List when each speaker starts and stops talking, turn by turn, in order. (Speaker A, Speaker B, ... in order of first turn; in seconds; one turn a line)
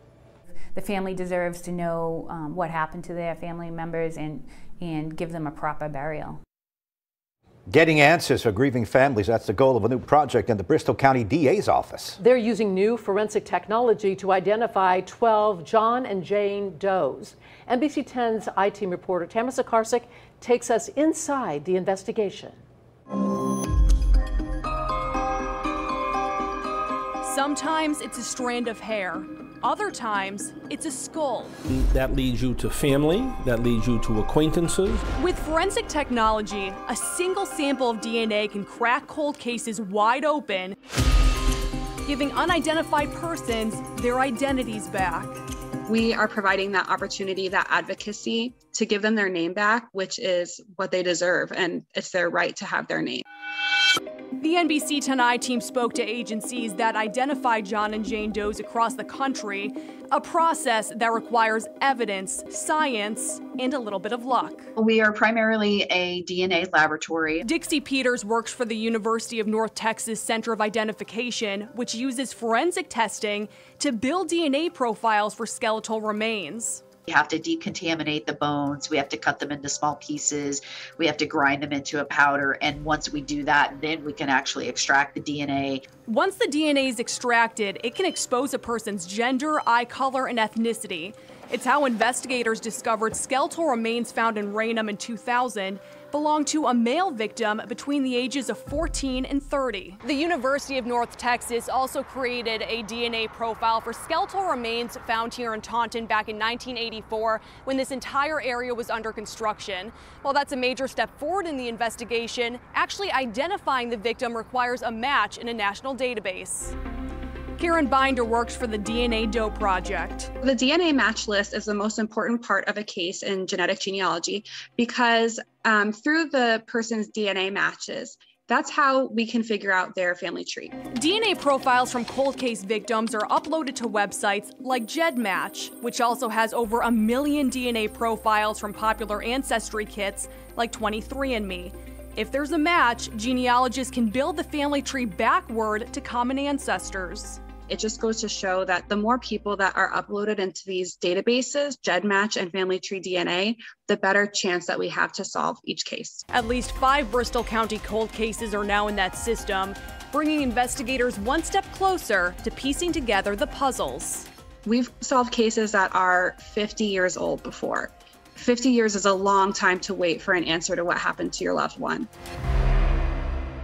Speaker A: 0.7-6.4
Speaker B: 7.7-12.2
Speaker C: 12.2-22.6
Speaker D: 27.2-31.5
Speaker E: 31.7-35.0
Speaker D: 35.2-40.8
Speaker D: 42.0-45.4
Speaker F: 45.9-53.2
Speaker D: 54.4-64.7
Speaker G: 64.8-67.4
Speaker D: 67.4-76.8
Speaker G: 77.1-85.8
Speaker D: 86.1-116.8
Speaker D: 117.6-120.3
Speaker F: 120.4-130.7
Speaker D: 130.9-147.4
Speaker F: 147.7-156.2
Speaker D: 156.3-164.3
Speaker F: 164.6-172.1